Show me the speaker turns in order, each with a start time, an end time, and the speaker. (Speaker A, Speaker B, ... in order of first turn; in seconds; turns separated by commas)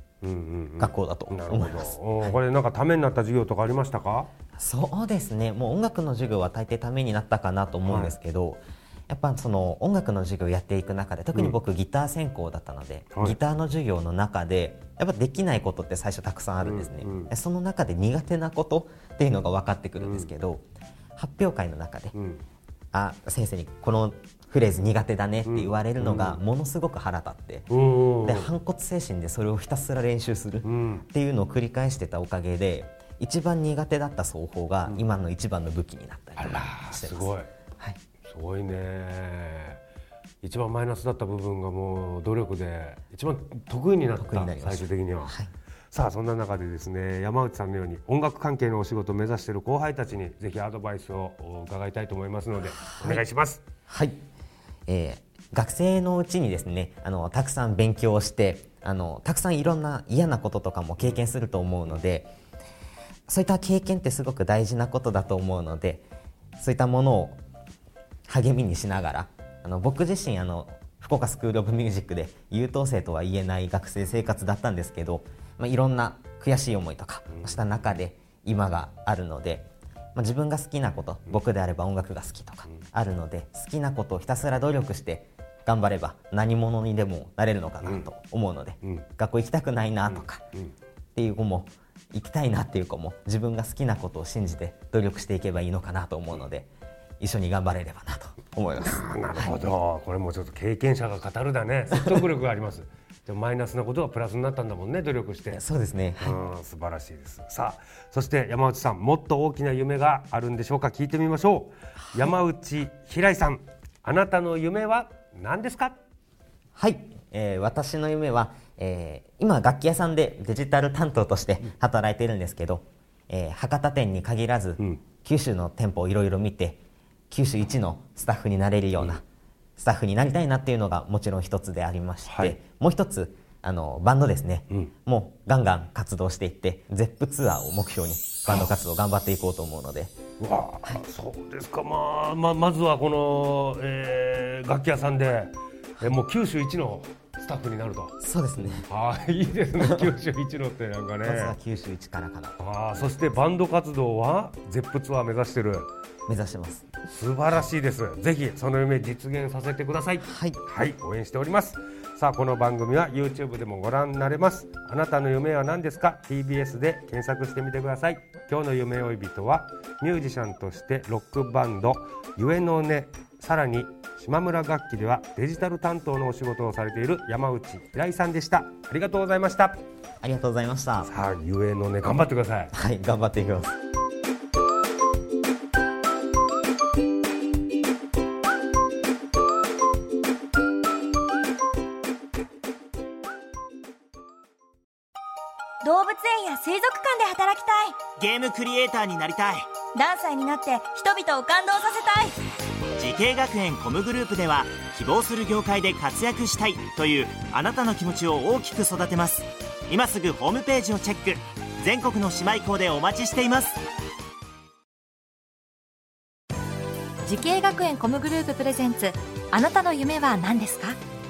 Speaker A: 0.2-4.3, Speaker B: 0.8-2.4, Speaker B: 4.6-20.6, Speaker A: 7.9-8.2, Speaker A: 16.6-17.3, Speaker A: 20.0-20.3, Speaker B: 21.2-22.1, Speaker A: 22.1-22.4, Speaker B: 22.9-27.7, Speaker A: 25.4-26.4, Speaker A: 27.7-28.5, Speaker B: 28.2-38.0, Speaker A: 30.6-31.1, Speaker A: 36.4-37.5, Speaker A: 38.2-39.8, Speaker A: 40.4-45.4, Speaker B: 44.2-45.5, Speaker A: 45.9-53.6, Speaker B: 52.7-53.2, Speaker B: 53.9-54.2, Speaker B: 54.9-62.3, Speaker B: 63.3-66.1, Speaker B: 66.6-67.4, Speaker B: 68.3-90.4, Speaker A: 77.3-77.9, Speaker A: 87.8-88.1, Speaker A: 90.1-90.7, Speaker B: 91.2-99.7, Speaker A: 98.8-105.6, Speaker B: 105.5-106.4, Speaker A: 106.2-116.0, Speaker B: 116.8-129.2, Speaker B: 129.8-140.1, Speaker A: 132.2-132.6, Speaker A: 140.4-148.2, Speaker B: 148.2-148.9, Speaker A: 148.9-151.6, Speaker B: 151.2-152.6, Speaker A: 152.6-155.9, Speaker B: 156.3-156.9, Speaker A: 157.1-179.8, Speaker B: 160.2-160.6, Speaker B: 180.2-181.1, Speaker A: 181.1-182.7, Speaker B: 182.7-183.8, Speaker C: 195.8-198.0, Speaker D: 198.2-199.7, Speaker C: 199.9-202.4, Speaker D: 203.0-213.8, Speaker E: 217.2-221.0